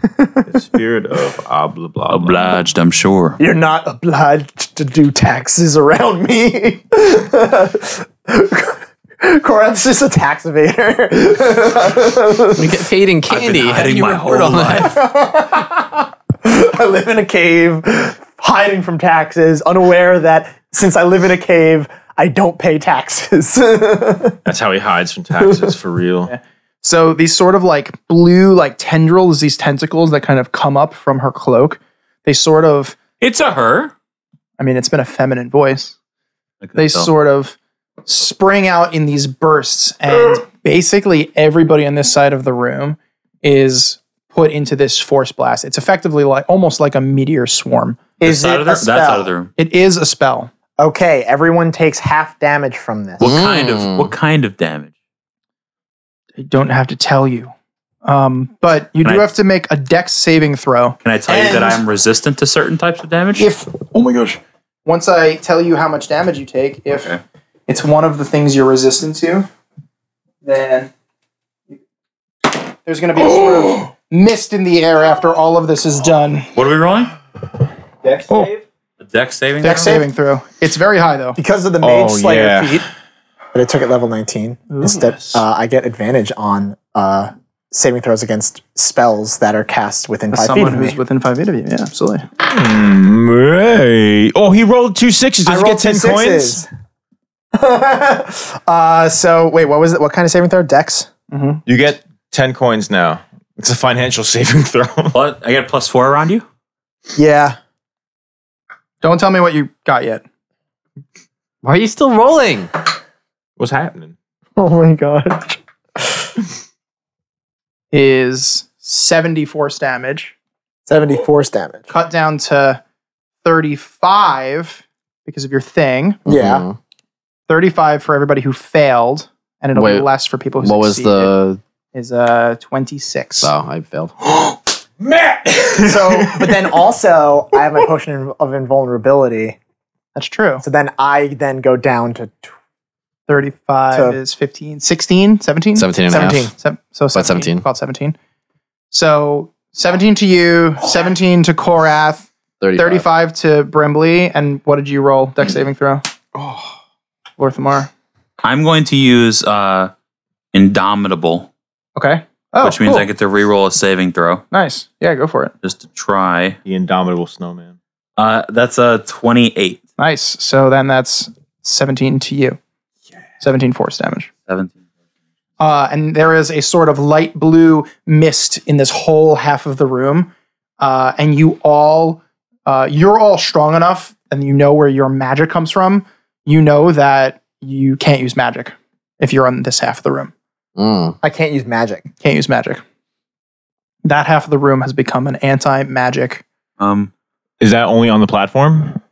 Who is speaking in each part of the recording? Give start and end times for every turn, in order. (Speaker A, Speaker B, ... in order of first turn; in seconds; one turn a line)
Speaker A: 0.5-2.6
Speaker B: 2.1-3.4
Speaker C: 3.4-12.8
Speaker D: 12.6-14.9
Speaker B: 13.3-14.9
Speaker C: 14.8-24.4
Speaker A: 24.4-26.3
Speaker E: 26.3-33.0
Speaker B: 33.2-33.9
Speaker E: 34.6-36.0
Speaker B: 36.6-37.1
Speaker E: 36.8-48.0
Speaker C: 48.2-49.3
Speaker B: 48.2-49.5
Speaker E: 49.6-50.5
Speaker C: 50.8-53.4
Speaker B: 53.2-54.9
Speaker D: 53.2-54.1
Speaker E: 56.4-57.5
Speaker E: 58.0-61.0
Speaker B: 59.0-59.3
Speaker B: 61.0-63.5
Speaker C: 61.3-61.8
Speaker E: 63.4-67.1
Speaker E: 67.7-69.5
Speaker E: 70.4-70.9
Speaker E: 72.8-76.5
Speaker B: 76.5-77.1
Speaker E: 78.3-78.6
Speaker B: 79.0-80.0
Speaker E: 79.6-81.4
Speaker C: 79.6-80.1
Speaker C: 81.4-82.9
Speaker A: 81.8-82.9
Speaker C: 83.5-91.0
Speaker E: 84.7-85.4
Speaker E: 90.3-92.3
Speaker A: 92.4-96.6
Speaker C: 95.5-96.7
Speaker C: 97.5-101.1
Speaker E: 101.3-101.6
Speaker A: 101.7-105.2
Speaker B: 105.1-106.4
Speaker C: 107.2-107.6
Speaker E: 109.0-110.2
Speaker D: 111.6-112.7
Speaker A: 113.6-114.2
Speaker C: 114.6-116.3
Speaker E: 117.9-120.3
Speaker C: 120.9-121.9
Speaker E: 121.9-122.8
Speaker E: 123.4-126.2
Speaker D: 126.3-126.8
Speaker C: 126.3-126.7
Speaker E: 127.5-131.3
Speaker D: 129.8-130.1
Speaker D: 130.6-131.6
Speaker E: 131.9-133.5
Speaker D: 133.4-134.1
Speaker A: 134.3-136.8
Speaker C: 135.8-139.6
Speaker E: 140.2-140.6
Speaker C: 140.6-142.5
Speaker E: 143.3-145.9
Speaker C: 143.9-144.2
Speaker D: 145.8-146.5
Speaker C: 146.1-146.5
Speaker E: 146.5-148.2
Speaker D: 147.2-147.7
Speaker E: 148.9-156.0
Speaker D: 152.6-153.1
Speaker E: 157.4-157.9
Speaker B: 158.4-159.9
Speaker B: 160.5-161.5
Speaker E: 162.0-163.1
Speaker B: 162.6-164.4
Speaker E: 164.5-165.5
Speaker B: 165.6-166.6
Speaker A: 166.7-167.8
Speaker B: 168.2-169.8
Speaker E: 170.0-172.6
Speaker E: 173.4-174.3
Speaker B: 174.5-174.7
Speaker E: 175.6-190.3
Speaker D: 190.8-191.2
Speaker C: 191.2-192.1
Speaker E: 192.2-192.8
Speaker E: 194.0-196.4
Speaker B: 196.8-197.1
Speaker A: 197.6-199.0